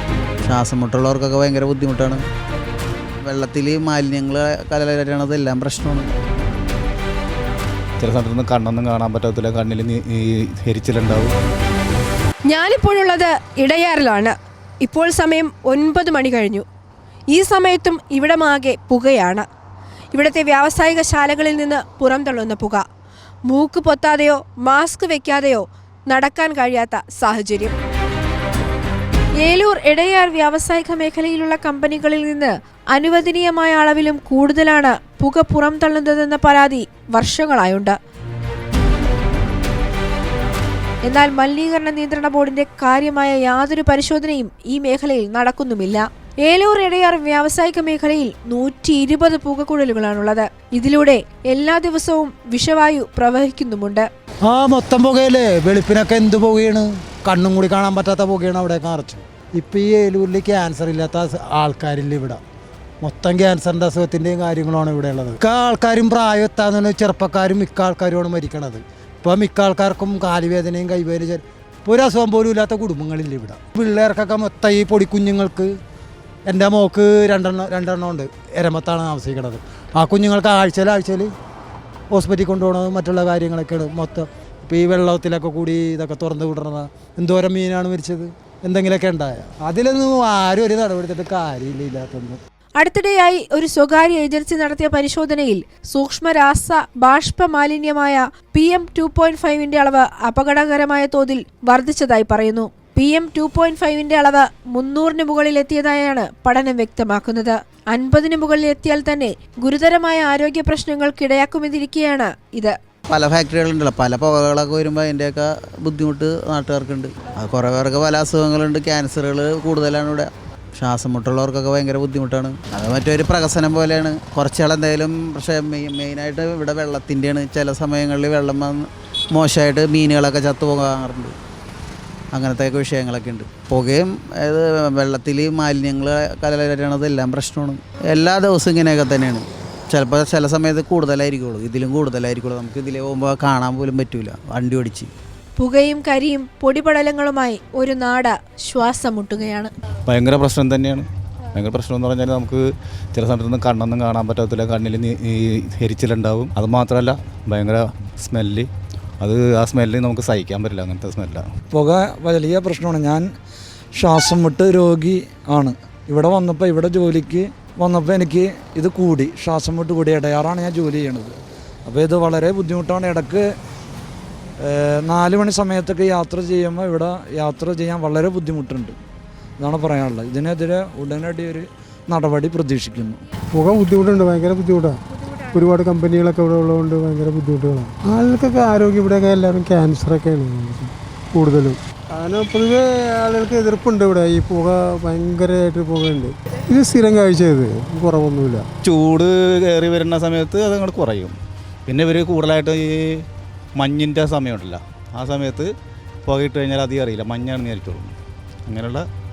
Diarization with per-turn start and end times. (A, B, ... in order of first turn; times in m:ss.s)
0:00.4-0:02.2 A
0:03.2-0:06.2 A
0:08.0-0:11.3 B
0:12.5-0:16.6 C
0:17.3-0:19.4 C
0:20.1-0:22.8 C
0:23.5-0:27.8 C
0:29.4-0:37.9 C
0:41.0-0:54.1 C
0:54.4-1:02.4 D
1:03.0-1:15.7 D
1:16.5-1:21.3 D
1:22.1-1:32.4 D
1:32.8-1:52.8 C
1:53.1-2:11.3 A
2:12.3-2:25.1 A
2:25.6-2:29.7 C
2:30.1-2:38.7 B
2:39.2-2:41.5 B
2:41.7-2:43.2 E
2:43.9-2:53.5 E
2:54.6-2:59.0 E
2:59.6-3:03.2 E
3:03.6-3:05.0 F
3:05.5-3:18.6 F
3:18.8-3:21.3 B
3:21.9-3:23.2 B
3:23.8-3:25.7 B
3:26.2-3:28.1 B
3:28.6-3:29.0 B